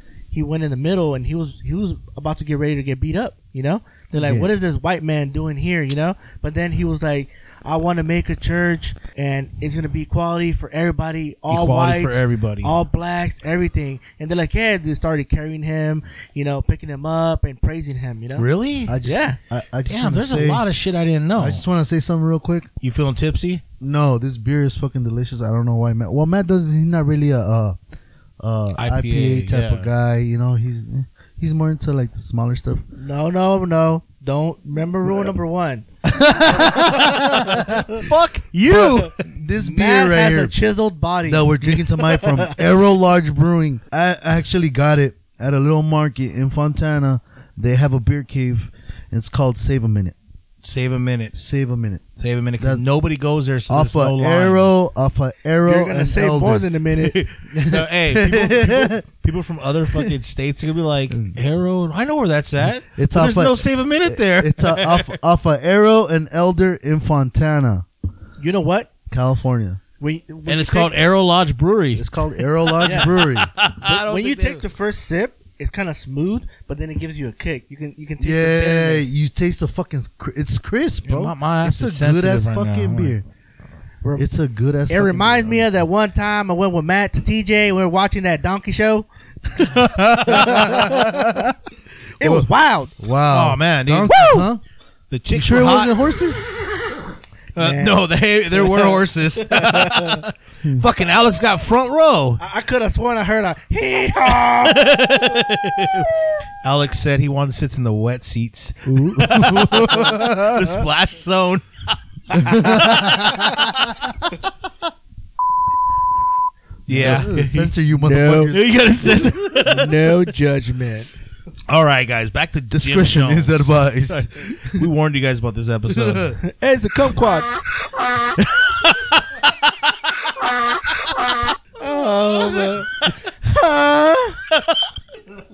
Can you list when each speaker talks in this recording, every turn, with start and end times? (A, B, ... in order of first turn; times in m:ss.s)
0:00.3-0:18.5 A
0:04.2-0:04.5 B
0:11.5-0:12.8 C
0:18.4-0:19.0 C
0:18.9-0:20.6 B
0:19.0-0:19.4 A
0:19.9-0:21.6 C
0:21.4-0:22.7 B
0:22.8-0:23.6 C
0:23.8-0:27.8 B
0:28.4-0:32.8 B
0:28.8-0:29.9 C
0:33.0-0:38.0 A
0:36.0-0:37.9 B
0:37.9-0:39.2 C
0:38.7-0:40.6 B
0:39.6-0:42.6 A
0:41.3-0:50.2 B
0:50.6-0:51.4 C
0:51.4-0:52.1 B
0:52.2-0:54.7 C
0:53.7-0:56.7 B
0:55.6-0:57.2 A
0:57.0-1:05.2 C
0:57.5-0:59.0 B
1:02.9-1:07.9 B
1:08.4-1:08.9 A
1:09.1-1:09.8 B
1:10.0-1:10.9 A
1:10.5-1:14.6 C
1:12.0-1:13.5 B
1:12.8-1:13.2 A
1:13.8-1:19.1 A
1:18.2-1:23.2 B
1:21.0-1:23.2 C
1:24.2-1:25.8 B
1:24.9-1:29.1 A
1:29.7-1:31.6 B
1:30.2-1:30.5 C
1:30.2-1:31.4 A
1:32.2-1:32.5 B
1:32.2-1:32.9 A
1:33.0-1:34.6 B
1:33.3-1:34.5 C
1:35.1-1:36.0 C
1:35.3-1:36.5 B
1:37.6-1:42.4 C
1:37.6-1:38.0 A
1:38.5-1:40.2 A
1:42.4-1:44.9 A
1:44.4-1:51.7 C
1:48.9-1:50.7 B
1:52.3-1:53.9 C
1:52.4-1:54.0 B
1:52.4-1:52.7 A
1:56.9-1:57.7 C
1:56.9-1:59.3 B
1:56.9-1:57.4 A
1:58.0-1:58.6 A
1:58.3-2:00.2 C
1:59.6-2:01.1 A
2:01.7-2:06.4 C
2:02.7-2:04.9 B
2:05.9-2:06.4 B
2:06.4-2:07.5 A
2:08.4-2:09.9 C
2:11.8-2:12.9 A
2:13.4-2:14.4 A
2:14.5-2:14.8 C